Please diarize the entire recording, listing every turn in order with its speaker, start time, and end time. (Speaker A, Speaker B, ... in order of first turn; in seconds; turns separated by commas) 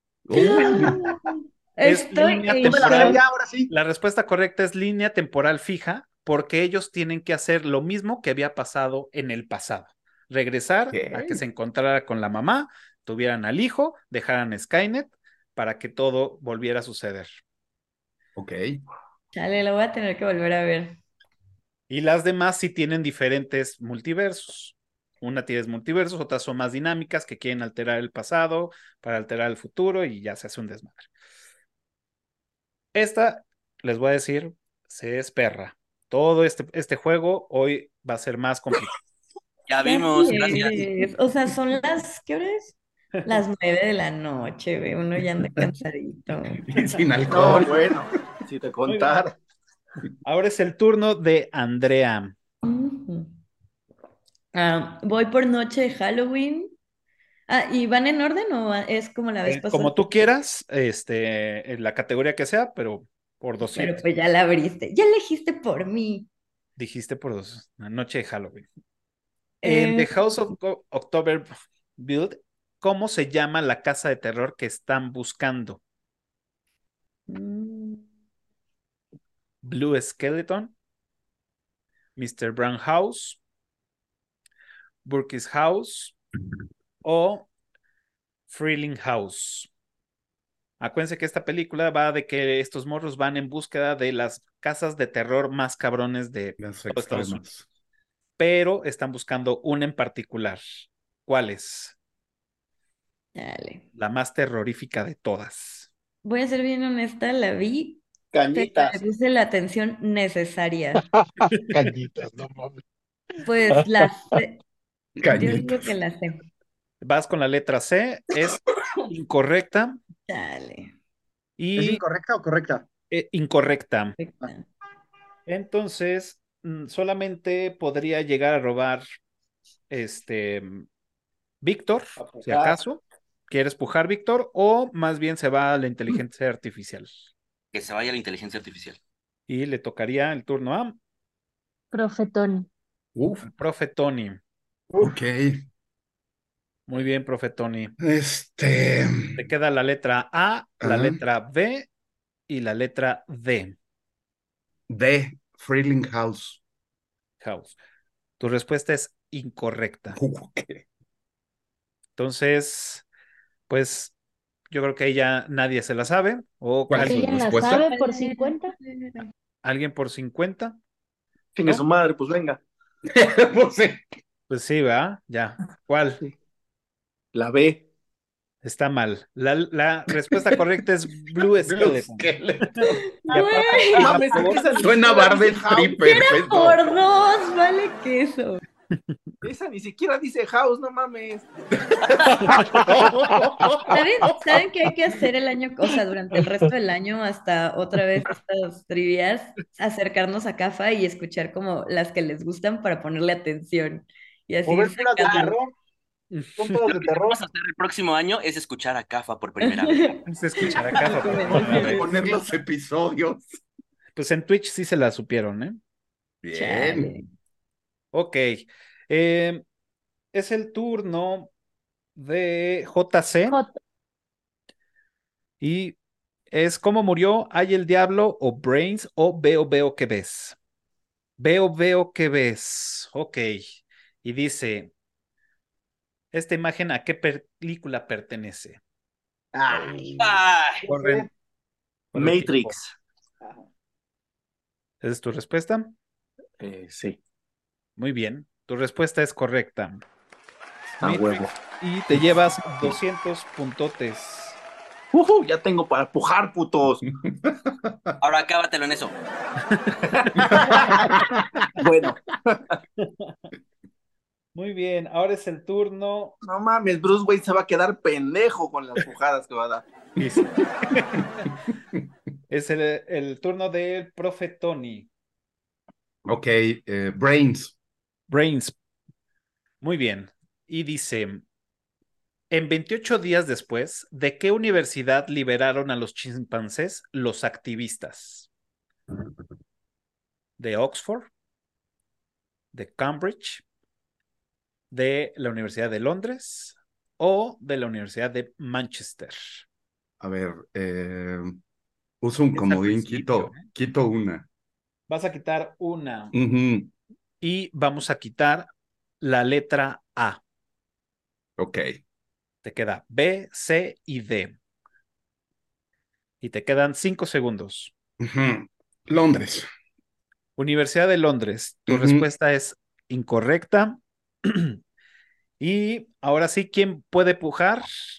Speaker A: 0.2-1.1, Speaker B: 0.3-3.2, Speaker C: 0.4-0.6, Speaker C: 1.8-17.3, Speaker D: 2.6-3.7, Speaker A: 10.9-11.4, Speaker A: 18.3-18.8, Speaker B: 19.3-21.0, Speaker C: 21.9-31.1, Speaker C: 32.9-38.9, Speaker E: 39.7-40.9, Speaker B: 39.8-46.6, Speaker A: 46.6-48.0, Speaker F: 47.3-49.4, Speaker C: 48.9-49.2, Speaker C: 50.2-52.3, Speaker B: 52.6-53.3, Speaker B: 54.5-56.7, Speaker B: 57.5-60.3, Speaker C: 59.4-64.0, Speaker B: 63.6-66.3, Speaker C: 66.8-68.7, Speaker B: 69.6-70.2, Speaker C: 69.6-75.8, Speaker C: 79.6-80.7, Speaker C: 82.2-83.4, Speaker C: 85.0-86.2, Speaker C: 87.0-87.5, Speaker C: 88.5-89.7, Speaker C: 90.8-97.4, Speaker A: 96.6-97.7, Speaker C: 98.4-100.6, Speaker C: 101.2-102.0, Speaker B: 103.3-103.8, Speaker C: 103.9-105.9, Speaker B: 106.2-111.0, Speaker C: 108.3-109.0, Speaker G: 111.0-112.8, Speaker B: 113.4-114.6, Speaker G: 113.7-114.1, Speaker A: 115.2-115.9, Speaker B: 115.3-116.4, Speaker C: 117.0-120.0, Speaker B: 120.3-120.9, Speaker C: 121.6-122.0, Speaker D: 121.8-122.8, Speaker C: 123.1-124.2, Speaker B: 124.2-124.7, Speaker C: 125.5-129.0, Speaker C: 129.9-130.8, Speaker C: 131.6-137.1, Speaker F: 132.2-132.7, Speaker E: 137.7-139.0, Speaker C: 139.5-141.0, Speaker H: 141.9-142.7, Speaker A: 143.1-143.5, Speaker C: 143.5-144.4, Speaker D: 144.9-145.2, Speaker A: 145.0-145.6, Speaker C: 146.9-147.9, Speaker A: 148.0-149.4, Speaker C: 149.3-151.9, Speaker A: 150.8-151.2, Speaker C: 152.5-153.8, Speaker A: 154.9-156.6, Speaker C: 157.4-157.8, Speaker C: 158.4-160.2, Speaker A: 160.1-160.8, Speaker C: 162.2-163.0, Speaker C: 163.7-164.1, Speaker C: 164.7-167.3, Speaker A: 166.9-167.9, Speaker H: 167.0-168.7, Speaker B: 167.7-169.3, Speaker C: 169.6-170.8, Speaker F: 171.5-172.6, Speaker A: 173.1-174.0, Speaker C: 174.5-176.2, Speaker F: 177.3-177.8, Speaker C: 178.6-182.2, Speaker A: 181.6-182.9, Speaker B: 183.2-184.5, Speaker C: 183.3-184.6, Speaker F: 183.8-186.0, Speaker A: 184.8-186.9, Speaker B: 186.0-188.6, Speaker F: 189.4-191.5, Speaker A: 191.9-194.6, Speaker B: 193.9-205.5, Speaker D: 204.7-205.7, Speaker C: 206.3-206.8, Speaker D: 206.6-207.4, Speaker E: 206.9-210.2, Speaker B: 209.6-212.4, Speaker C: 210.2-212.1, Speaker A: 211.6-213.4, Speaker C: 214.2-215.8, Speaker A: 216.4-217.1, Speaker B: 216.5-217.2, Speaker C: 218.1-219.6, Speaker C: 220.3-221.5, Speaker C: 222.2-223.6, Speaker H: 223.5-223.7, Speaker C: 225.6-225.9, Speaker C: 226.5-230.6, Speaker C: 231.4-234.9, Speaker C: 236.3-238.8, Speaker D: 239.5-241.3, Speaker A: 239.7-240.0, Speaker E: 240.2-240.8, Speaker C: 240.8-241.3, Speaker C: 242.1-242.8, Speaker F: 242.1-242.9, Speaker D: 243.4-243.7, Speaker C: 245.0-245.9, Speaker F: 246.6-247.2, Speaker C: 248.0-250.0, Speaker F: 251.0-251.5, Speaker C: 251.0-254.6, Speaker F: 255.1-257.0, Speaker A: 257.2-258.1, Speaker E: 258.2-259.1, Speaker F: 260.2-261.1, Speaker A: 260.5-261.4, Speaker F: 261.8-262.6, Speaker C: 264.5-266.4, Speaker F: 266.4-269.9, Speaker C: 270.2-271.2, Speaker C: 272.5-275.1, Speaker A: 276.2-277.7, Speaker C: 278.3-278.7, Speaker C: 279.8-281.4, Speaker C: 282.5-288.5, Speaker C: 290.6-291.3, Speaker C: 292.7-293.6, Speaker C: 294.9-299.6, Speaker A: 300.2-301.6, Speaker A: 302.2-304.4, Speaker C: 302.5-303.7, Speaker C: 305.1-306.3, Speaker A: 306.3-306.9, Speaker C: 307.4-308.7, Speaker C: 309.2-310.4, Speaker A: 311.6-311.9, Speaker C: 312.6-314.6, Speaker C: 316.4-317.9, Speaker A: 318.2-319.7, Speaker C: 320.6-324.8, Speaker A: 321.9-322.3, Speaker C: 325.6-327.9